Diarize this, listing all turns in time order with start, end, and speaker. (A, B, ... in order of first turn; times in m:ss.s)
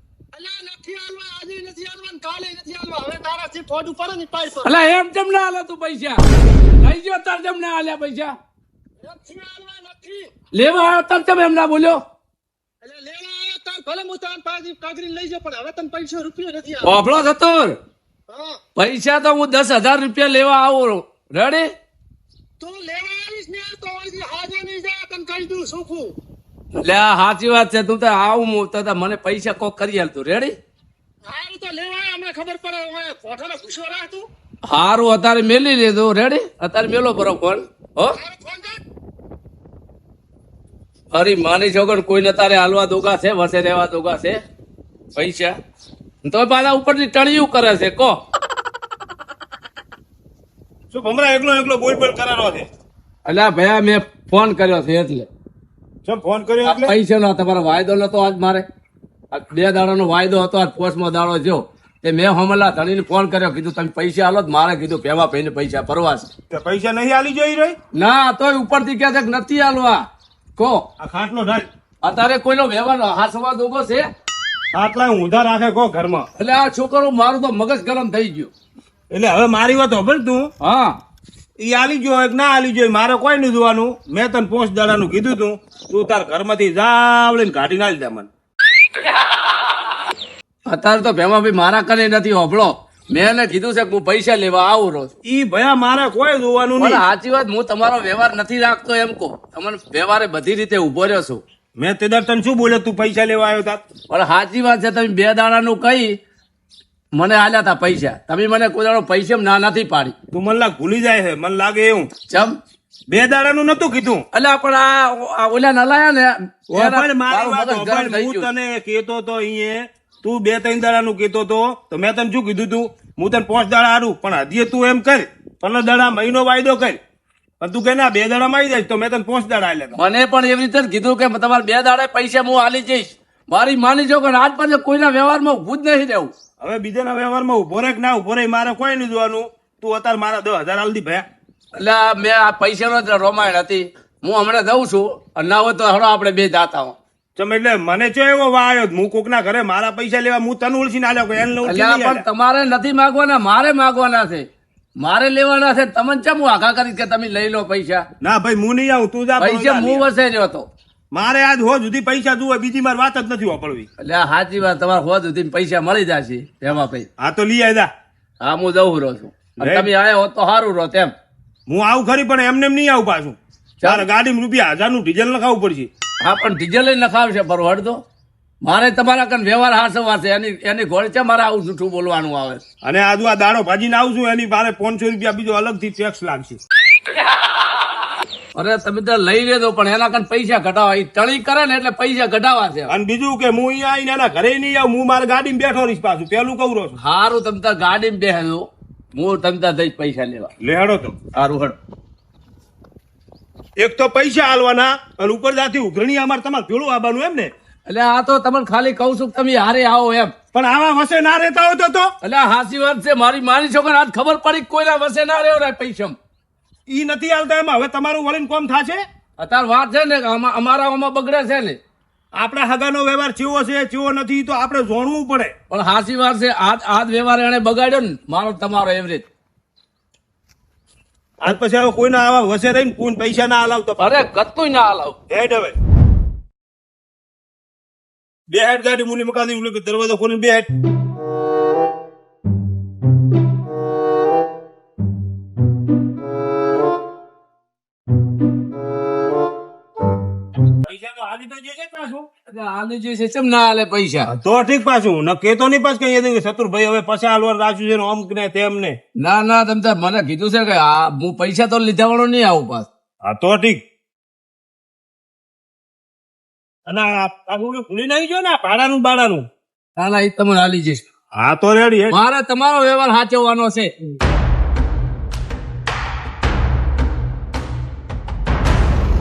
0:00.3-0:04.8 A
0:04.6-0:06.2 B
0:06.8-0:08.4 B
0:09.0-0:10.3 A
0:10.5-0:12.0 B
0:12.8-0:16.9 A
0:16.8-0:17.8 B
0:18.3-0:18.6 A
0:18.8-0:21.7 B
0:22.6-0:26.1 A
0:26.8-0:30.6 B
0:31.2-0:34.3 A
0:34.7-0:38.2 B
0:38.1-0:38.8 A
0:41.1-0:44.4 B
0:45.2-0:45.6 B
0:46.2-0:48.2 B
0:50.9-0:52.7 C
0:53.3-0:55.3 B
0:56.0-0:57.0 C
0:56.6-0:58.7 B
0:59.3-1:06.3 B
1:06.5-1:07.8 C
1:08.0-1:10.0 B
1:10.6-1:10.9 B
1:11.0-1:11.7 C
1:12.0-1:14.1 B
1:14.7-1:16.3 C
1:16.4-1:18.5 B
1:19.1-1:20.5 C
1:20.6-1:21.0 B
1:21.6-1:28.3 C
1:30.7-1:35.1 B
1:35.2-1:37.0 C
1:36.8-1:41.4 B
1:41.8-1:43.8 C
1:44.1-1:46.2 B
1:47.2-1:50.2 B
1:50.3-1:52.1 C
1:52.3-1:52.6 B
1:53.1-1:54.2 C
1:54.3-1:58.5 B
1:56.7-2:07.0 C
2:07.6-2:10.0 C
2:10.0-2:16.3 B
2:16.6-2:21.3 C
2:21.8-2:27.0 B
2:27.4-2:32.3 C
2:31.6-2:34.5 B
2:35.0-2:38.1 B
2:38.2-2:40.1 C
2:39.4-2:40.7 B
2:41.1-2:43.9 C
2:44.0-2:47.1 B
2:47.2-2:47.9 C
2:48.4-2:51.1 B
2:49.6-2:49.9 C
2:51.7-2:55.9 C
2:53.8-2:54.1 B
2:56.2-2:58.0 B
2:58.6-3:02.6 B
3:02.8-3:06.6 C
3:08.6-3:12.9 B
3:12.9-3:17.0 C
3:17.0-3:20.5 B
3:20.6-3:21.2 C
3:21.3-3:21.8 B
3:23.8-3:27.5 C
3:27.9-3:30.3 B
3:30.5-3:32.1 C
3:32.2-3:36.2 B
3:36.9-3:39.0 C
3:39.4-3:41.8 B
3:42.4-3:45.5 C
3:45.7-3:49.3 B
3:51.4-3:54.1 C
3:54.0-3:55.2 B
3:55.3-3:55.8 C
3:58.5-4:00.7 C
4:10.8-4:12.3 C
4:12.5-4:14.3 B
4:14.3-4:19.0 C
4:19.2-4:22.9 B
4:23.3-4:23.8 C
4:26.9-4:29.5 C
4:30.0-4:31.0 B
4:31.4-4:32.2 C
4:32.1-4:33.9 B